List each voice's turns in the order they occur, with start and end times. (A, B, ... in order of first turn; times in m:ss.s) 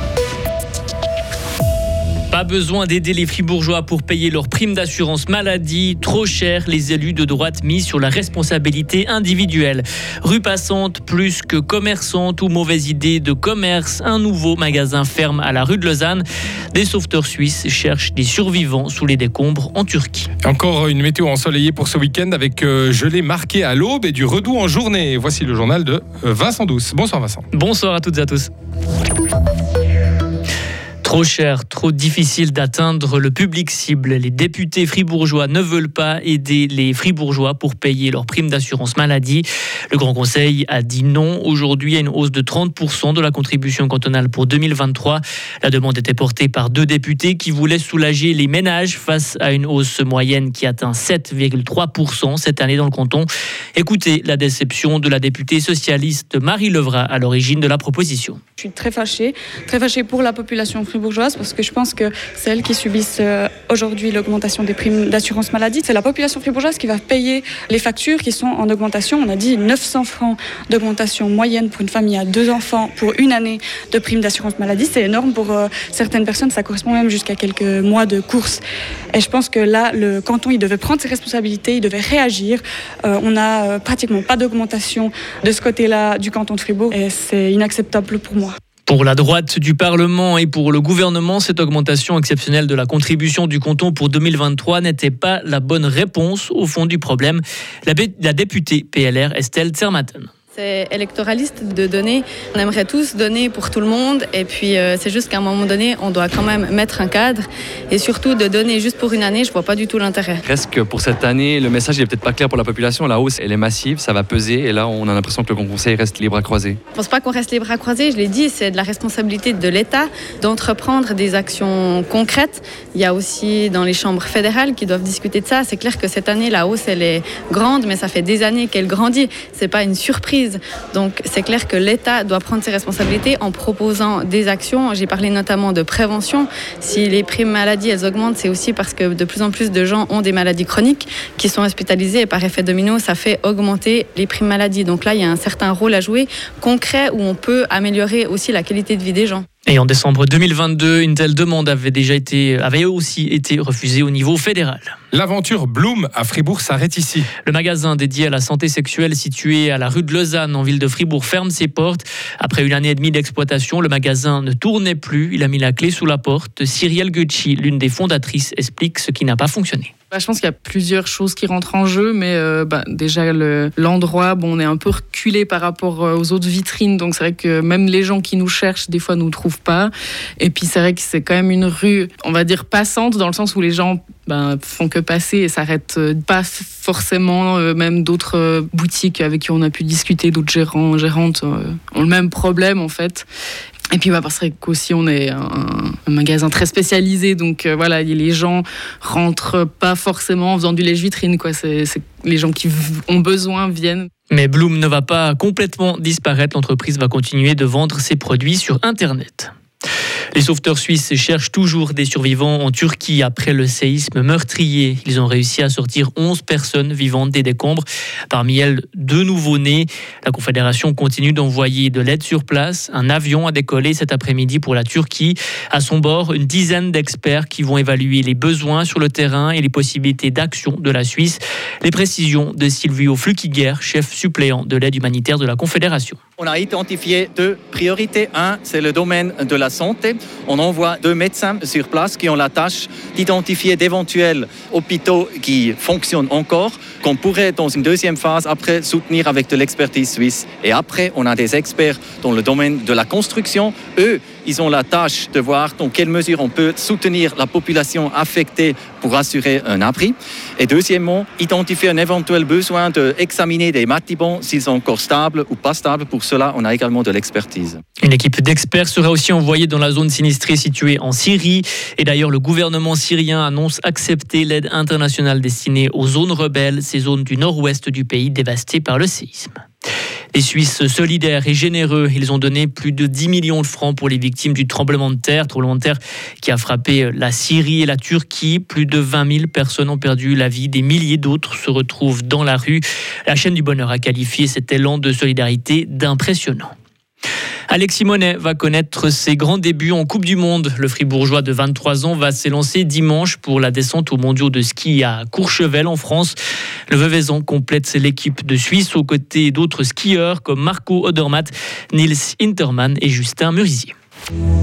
0:02.3-0:20.3 A
0:20.4-0:27.4 B
0:27.5-0:28.5 A
0:31.0-0:58.4 A
0:58.6-1:18.6 C
1:19.1-1:28.6 C
1:28.9-1:40.3 A
1:40.5-1:50.4 D
1:50.4-1:56.8 E
1:57.0-2:29.4 D
2:29.7-2:34.9 A
2:35.1-2:37.3 B
2:37.5-2:49.9 A
2:50.1-2:59.9 F
3:00.4-3:13.2 F
3:14.0-3:24.0 F
3:24.3-3:29.5 A
3:30.4-3:56.2 A
3:56.4-4:27.8 G
4:28.0-4:39.6 A
4:40.3-4:56.7 A
4:57.7-5:06.4 A
5:06.9-5:13.9 A